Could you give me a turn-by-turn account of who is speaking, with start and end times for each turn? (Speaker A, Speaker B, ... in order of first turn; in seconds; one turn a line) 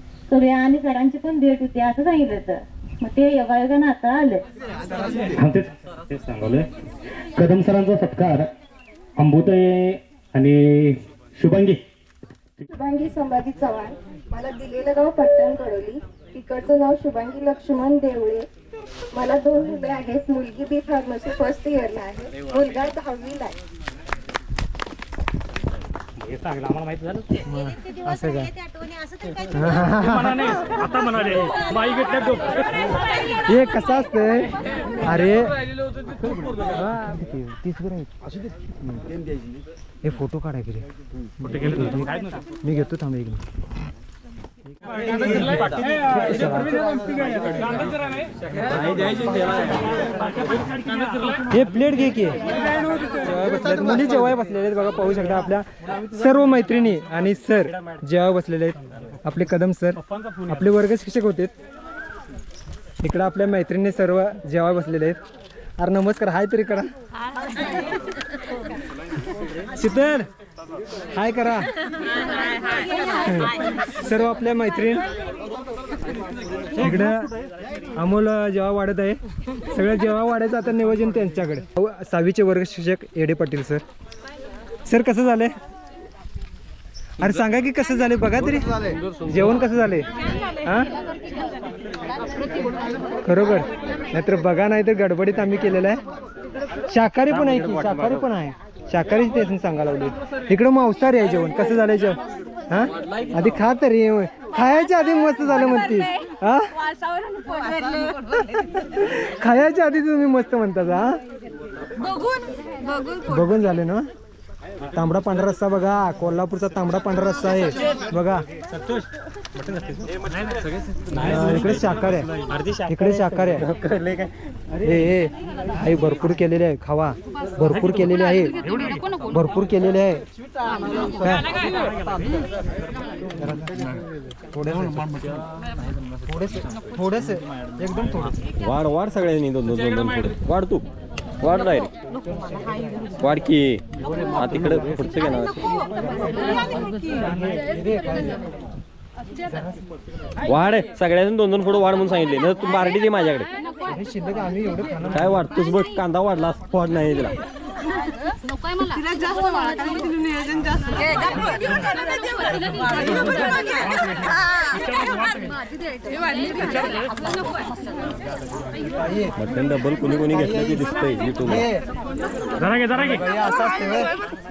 Speaker A: 0.3-4.4
Speaker B: 5.4-6.7
Speaker B: 7.4-8.5
Speaker B: 9.2-11.8
Speaker C: 12.7-18.5
Speaker C: 19.1-23.6
Speaker B: 26.2-27.3
Speaker D: 27.4-28.5
Speaker D: 29.5-30.8
Speaker B: 30.9-32.5
Speaker D: 33.5-34.5
Speaker D: 35.0-35.5
Speaker D: 36.7-38.1
Speaker D: 40.0-40.9
Speaker D: 41.4-43.4
Speaker D: 44.7-46.9
Speaker D: 51.5-52.4
Speaker D: 53.2-61.5
Speaker D: 63.0-65.2
Speaker D: 65.8-66.9
Speaker D: 69.8-70.3
Speaker D: 71.1-71.7
Speaker D: 73.2-75.0
Speaker D: 76.8-77.3
Speaker D: 78.0-83.8
Speaker D: 84.9-85.5
Speaker D: 87.2-90.1
Speaker D: 90.6-90.9
Speaker D: 93.2-96.0
Speaker D: 96.9-102.2
Speaker D: 102.7-106.7
Speaker D: 108.8-111.2
Speaker D: 113.3-114.1
Speaker D: 114.9-118.5
Speaker D: 121.2-122.3
Speaker D: 122.9-123.7
Speaker D: 124.8-128.6
Speaker D: 129.3-130.2
Speaker D: 131.2-131.5
Speaker D: 133.3-135.2
Speaker D: 136.3-138.4
Speaker E: 138.6-140.8
Speaker E: 141.4-141.9
Speaker D: 142.3-143.1
Speaker E: 143.2-143.8
Speaker E: 144.4-145.7
Speaker D: 144.5-145.1
Speaker D: 145.9-148.5
Speaker D: 149.5-149.8
Speaker E: 150.5-153.5
Speaker D: 153.9-155.5
Speaker E: 155.2-157.4
Speaker D: 168.9-169.5
Speaker E: 169.5-171.4
Speaker D: 170.3-170.8
Speaker D: 171.4-171.8
Speaker D: 172.9-174.1